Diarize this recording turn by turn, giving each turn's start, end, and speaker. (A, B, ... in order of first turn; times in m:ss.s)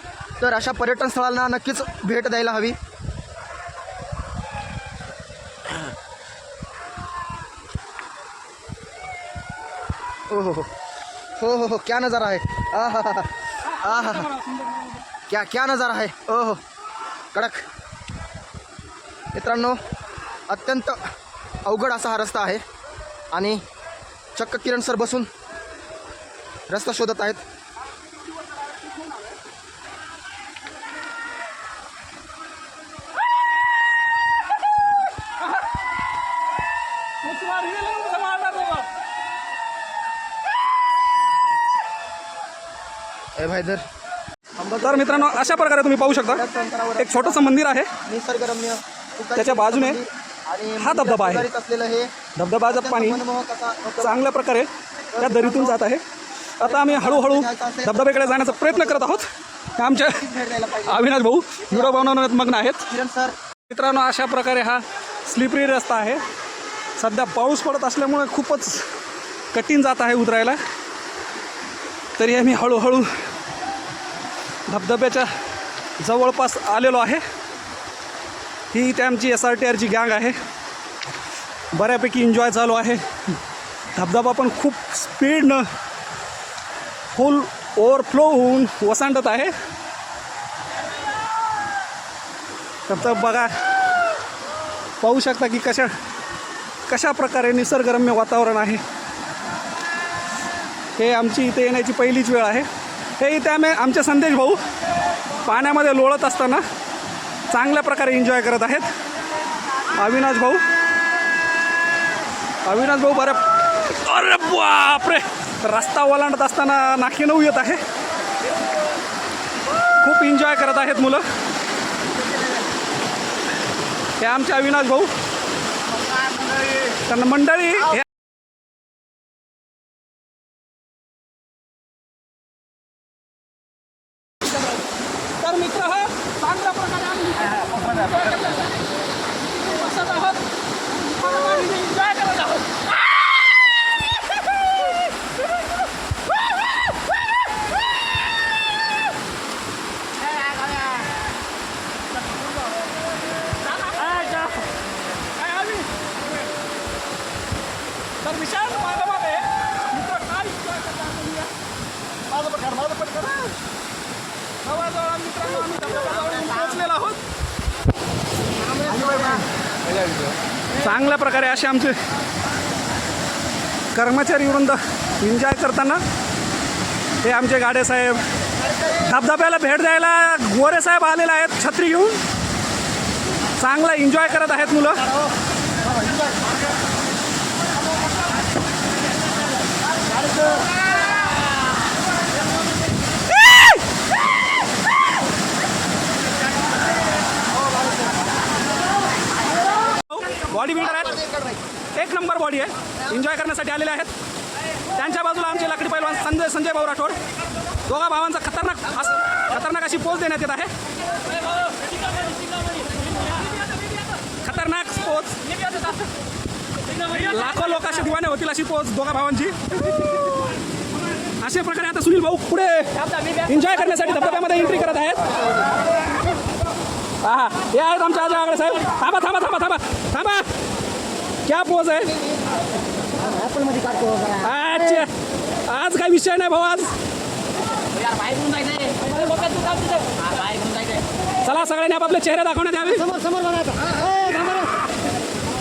0:00.4-0:02.8 A
0:10.3-0:10.7 A
0:11.4-0:14.3 A
0:13.7-0:15.0 B
0:15.3-0:16.6 A
0:17.3-0:17.7 A
0:19.3-0:19.8 A
0:20.5-0:21.0 A
0:21.6-0:22.6 A
0:23.3-0:23.6 A
0:24.4-0:25.3 A
0:26.7-0:27.4 A
0:28.3-0:29.4 B
0:37.2-0:38.9 B
0:43.4-0:43.8 A
0:44.6-0:52.1 A
0:44.8-0:46.4 B
0:47.0-0:47.9 B
0:49.4-0:50.0 B
0:50.8-0:51.5 B
0:52.4-0:53.2 B
0:52.7-0:54.3 A
0:54.0-0:56.0 B
0:55.1-0:55.8 A
0:56.6-1:00.2 B
0:56.6-0:59.2 A
1:00.0-1:01.1 A
1:00.9-1:02.9 B
1:01.7-1:02.3 A
1:02.9-1:03.4 A
1:03.7-1:06.2 B
1:07.0-1:08.9 B
1:09.5-1:10.6 B
1:12.2-1:13.1 B
1:14.7-1:15.3 B
1:16.0-1:17.2 B
1:18.7-1:20.4 B
1:21.7-1:23.0 B
1:24.0-1:25.7 B
1:27.1-1:29.5 B
1:32.9-1:33.5 B
1:35.0-1:35.9 B
1:36.9-1:38.8 B
1:41.0-1:42.7 B
1:43.2-1:44.6 B
1:45.4-1:46.6 B
1:47.5-1:48.9 B
1:50.0-1:50.6 B
1:52.6-1:57.8 B
2:00.0-2:01.2 B
2:04.2-2:05.1 B
2:07.0-2:08.0 B
2:15.4-2:18.6 B
2:19.6-2:20.4 B
2:21.0-2:22.6 B
2:33.7-2:34.6 B
2:35.4-2:35.9 B
2:38.2-2:41.5 B
2:42.7-2:43.3 B
2:44.6-2:47.2 B
2:50.8-2:52.0 B
2:53.9-2:56.0 B
2:57.2-2:58.2 B
2:58.9-3:02.2 B
3:03.6-3:05.1 B
3:20.0-3:21.3 B
3:22.0-3:24.1 B
3:24.9-3:27.2 B
3:27.9-3:30.7 B
3:34.3-3:35.6 B
3:37.0-3:40.4 B
3:41.4-3:45.4 B
3:47.2-3:50.5 B
3:51.4-3:52.2 B
3:53.3-3:54.3 C
3:54.3-3:55.1 B
3:55.6-3:56.9 B
3:58.0-4:01.0 C
4:01.4-4:03.2 B
4:03.2-4:04.6 C